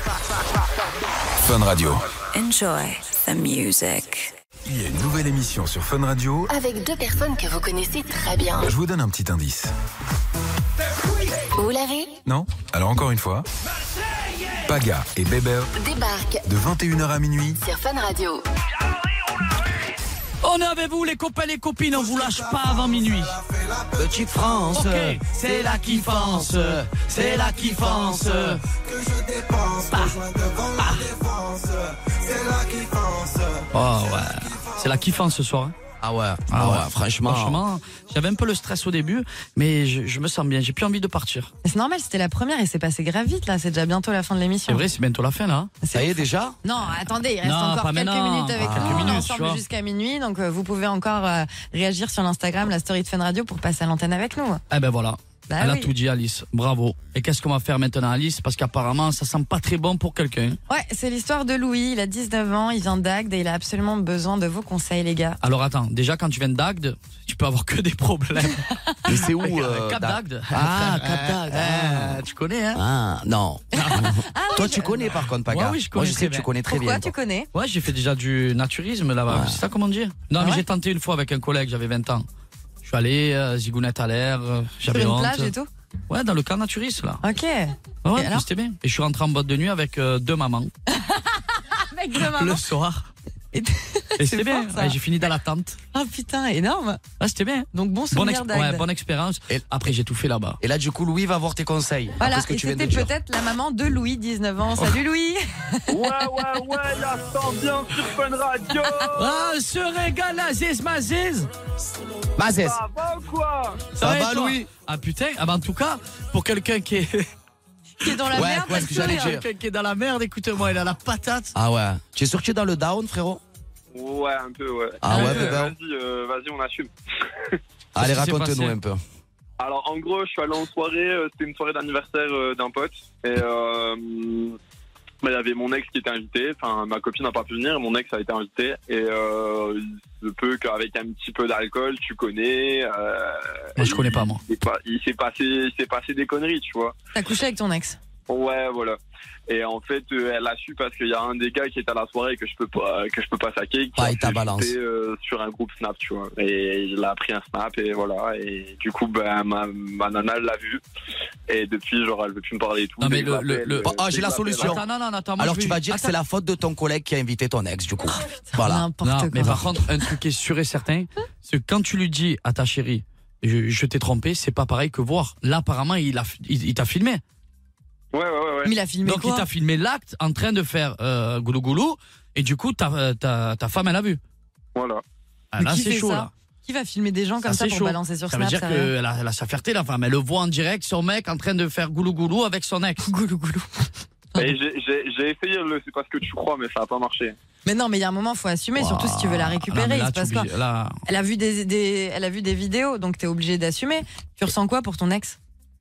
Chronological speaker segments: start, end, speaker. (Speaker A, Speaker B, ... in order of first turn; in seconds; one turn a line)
Speaker A: 1.4-2.1
Speaker B: 2.3-4.3
Speaker A: 4.7-6.5
Speaker B: 6.5-8.7
Speaker A: 8.5-9.7
Speaker B: 11.5-12.2
Speaker A: 12.2-13.5
Speaker A: 14.7-15.7
Speaker B: 15.8-16.4
Speaker A: 16.4-17.6
Speaker B: 17.6-18.4
Speaker C: 20.4-23.4
Speaker D: 23.9-28.6
Speaker C: 24.7-28.6
Speaker E: 29.0-29.7
Speaker C: 29.8-31.2
Speaker E: 30.3-30.6
Speaker E: 31.2-33.6
Speaker C: 33.7-35.7
Speaker D: 36.0-37.6
Speaker C: 36.5-41.5
Speaker F: 41.6-44.9
Speaker C: 44.7-45.7
Speaker F: 45.8-54.6
Speaker D: 45.9-46.6
Speaker C: 47.4-49.6
Speaker D: 48.6-49.2
Speaker C: 54.7-60.6
Speaker F: 55.5-55.9
Speaker F: 60.7-65.4
Speaker C: 65.4-72.8
Speaker D: 69.0-77.1
Speaker F: 73.7-75.3
Speaker C: 73.8-74.0
Speaker C: 75.5-76.5
Speaker F: 76.6-77.5
Speaker C: 77.5-82.2
Speaker D: 79.3-79.6
Speaker F: 80.4-80.6
Speaker C: 82.8-85.5
Speaker F: 84.9-85.7
Speaker C: 86.1-87.2
Speaker F: 87.2-88.5
Speaker C: 88.0-90.7
Speaker F: 90.9-92.6
Speaker C: 92.1-93.0
Speaker F: 93.5-95.0
Speaker C: 94.2-95.8
Speaker F: 95.9-97.0
Speaker C: 97.2-100.6
Speaker F: 97.7-98.9
Speaker D: 100.6-103.1
Speaker F: 102.2-106.2
Speaker G: 105.9-109.4
Speaker C: 109.1-111.5
Speaker D: 112.4-112.8
Speaker G: 112.6-113.9
Speaker C: 113.9-117.3
Speaker D: 114.0-114.7
Speaker F: 118.0-119.4
Speaker C: 118.0-121.5
Speaker D: 118.3-119.4
Speaker D: 121.5-123.4
Speaker G: 123.9-127.6
Speaker D: 125.0-125.8
Speaker C: 125.1-125.4
Speaker F: 125.1-125.5
Speaker D: 127.9-129.0
Speaker C: 128.0-128.8
Speaker G: 129.6-134.6
Speaker G: 135.2-146.9
Speaker C: 143.8-144.4
Speaker F: 147.1-148.0
Speaker G: 148.3-149.0
Speaker G: 149.5-160.8
Speaker D: 153.9-154.7
Speaker G: 161.5-164.8
Speaker C: 163.0-163.9
Speaker D: 163.8-164.8
Speaker C: 164.6-166.1
Speaker D: 165.4-168.8
Speaker F: 168.5-169.8
Speaker C: 169.0-177.2
Speaker G: 178.1-178.7
Speaker F: 178.6-179.5
Speaker C: 179.0-184.2
Speaker G: 184.8-185.0
Speaker C: 185.5-186.3
Speaker F: 185.6-188.9
Speaker C: 187.4-193.1
Speaker F: 193.0-193.9
Speaker G: 194.4-197.3
Speaker F: 197.7-200.5
Speaker C: 198.8-200.9
Speaker F: 201.1-205.4